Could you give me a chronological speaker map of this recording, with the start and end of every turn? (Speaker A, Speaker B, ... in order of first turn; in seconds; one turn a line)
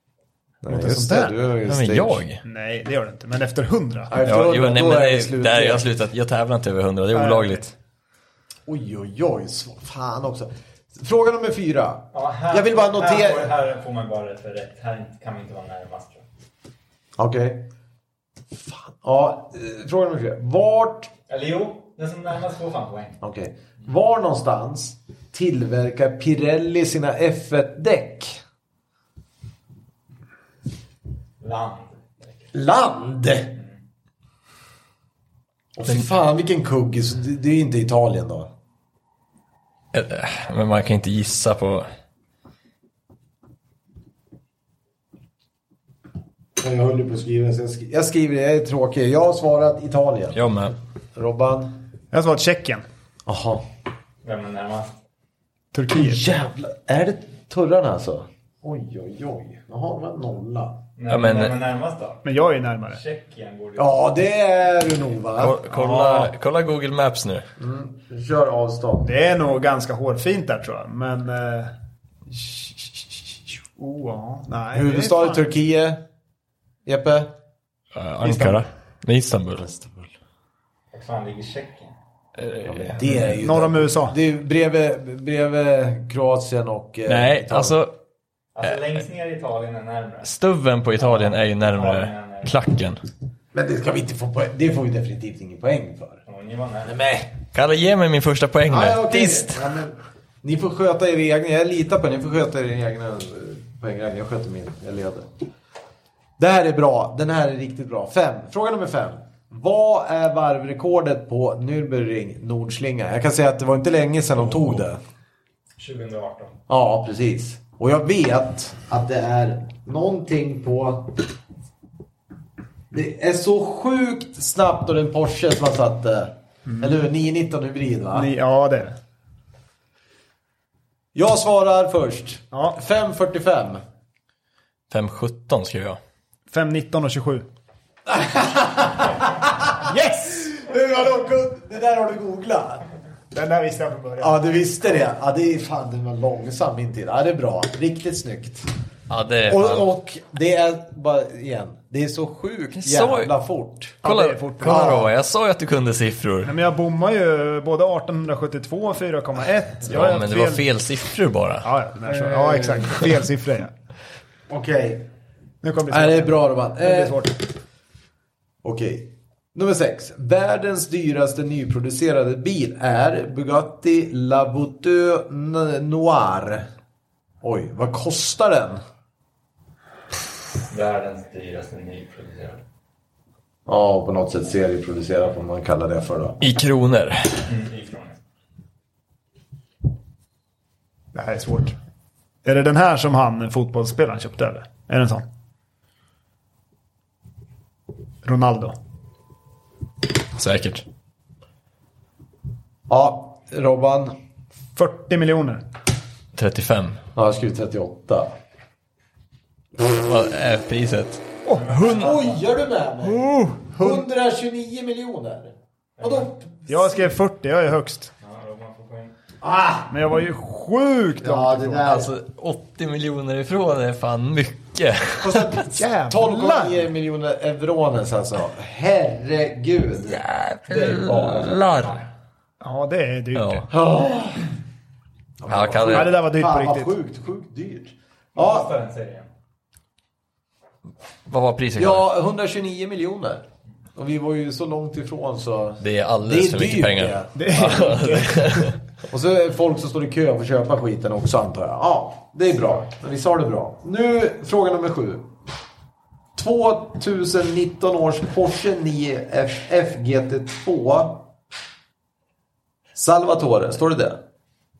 Speaker A: 0.6-2.2
Speaker B: 0.7-1.4
Speaker C: 1.6-2.4
Speaker B: 2.4-4.1
Speaker A: 4.1-5.9
Speaker C: 4.2-7.7
Speaker B: 7.1-7.6
Speaker A: 8.7-13.5
Speaker D: 12.1-16.2
Speaker A: 17.2-17.7
Speaker A: 18.5-21.1
Speaker D: 21.3-23.2
Speaker A: 23.2-28.4
Speaker D: 31.4-32.4
Speaker A: 32.5-33.5
Speaker A: 35.7-38.5
Speaker C: 39.9-41.9
Speaker A: 46.6-50.4
Speaker C: 50.3-50.7
Speaker A: 51.1-51.8
Speaker B: 52.1-52.8
Speaker A: 53.2-53.6
Speaker D: 54.2-54.9
Speaker B: 55.7-56.2
Speaker A: 55.9-60.8
Speaker D: 61.0-62.2
Speaker C: 61.1-61.5
Speaker B: 62.2-63.0
Speaker D: 62.9-64.0
Speaker A: 63.8-65.6
Speaker C: 65.4-67.5
Speaker B: 65.7-66.3
Speaker A: 67.6-69.1
Speaker B: 69.0-71.7
Speaker B: 73.8-75.5
Speaker A: 74.7-76.0
Speaker A: 76.8-77.3
Speaker C: 77.9-79.7
Speaker B: 78.2-78.6
Speaker A: 79.6-80.1
Speaker D: 80.9-81.9
Speaker C: 82.4-83.3
Speaker A: 82.6-87.8
Speaker B: 83.1-84.2
Speaker C: 87.1-87.9
Speaker D: 88.5-90.3
Speaker C: 90.2-93.0
Speaker D: 91.0-92.5
Speaker A: 93.5-96.2
Speaker D: 96.3-96.9
Speaker A: 96.8-97.3
Speaker C: 97.5-99.6
Speaker A: 98.7-105.3
Speaker A: 106.4-115.0
Speaker D: 115.8-116.5
Speaker A: 116.7-121.2
Speaker A: 122.9-128.3
Speaker B: 126.7-127.0
Speaker B: 128.1-128.9
Speaker A: 131.1-133.8
Speaker B: 132.5-132.8
Speaker C: 134.9-136.0
Speaker B: 136.5-137.5
Speaker A: 138.1-142.8
Speaker B: 139.8-140.5
Speaker B: 143.3-144.4
Speaker A: 144.2-148.7
Speaker C: 149.1-149.9
Speaker A: 149.5-154.0
Speaker C: 152.7-153.3
Speaker B: 154.0-155.1
Speaker C: 154.0-156.5
Speaker A: 154.6-155.1
Speaker B: 156.4-160.6
Speaker C: 159.9-161.7
Speaker B: 161.6-163.7
Speaker A: 162.1-163.1
Speaker A: 164.5-165.1
Speaker B: 165.6-167.4
Speaker A: 165.9-167.3
Speaker A: 168.6-176.7
Speaker A: 177.4-178.8
Speaker D: 180.7-182.6
Speaker A: 183.7-186.4
Speaker C: 186.4-187.5
Speaker D: 187.5-188.2
Speaker B: 191.1-191.8
Speaker B: 192.4-195.2
Speaker B: 198.2-198.8
Speaker C: 200.3-200.8
Speaker A: 202.9-204.1
Speaker B: 204.8-205.6
Speaker C: 206.3-207.0
Speaker A: 207.1-208.3
Speaker C: 209.8-211.2
Speaker B: 211.4-212.1
Speaker D: 211.5-212.4
Speaker A: 211.8-217.1
Speaker B: 213.0-214.0
Speaker D: 216.0-216.3
Speaker B: 216.7-218.1
Speaker D: 218.2-219.1
Speaker A: 219.4-219.9
Speaker B: 219.9-221.9
Speaker A: 221.2-222.1
Speaker C: 221.8-225.5
Speaker A: 225.2-230.2
Speaker B: 225.7-226.8
Speaker C: 230.1-232.0
Speaker D: 230.7-232.0
Speaker B: 232.6-233.7
Speaker C: 233.3-233.6
Speaker A: 233.7-234.5
Speaker A: 235.4-238.7
Speaker C: 235.5-236.2
Speaker B: 235.9-236.9
Speaker D: 238.3-239.3
Speaker C: 241.3-242.0
Speaker A: 241.8-243.4
Speaker A: 243.9-247.3
Speaker C: 245.8-248.8
Speaker B: 247.3-248.7
Speaker A: 249.1-255.3
Speaker A: 256.4-261.3
Speaker A: 262.9-264.2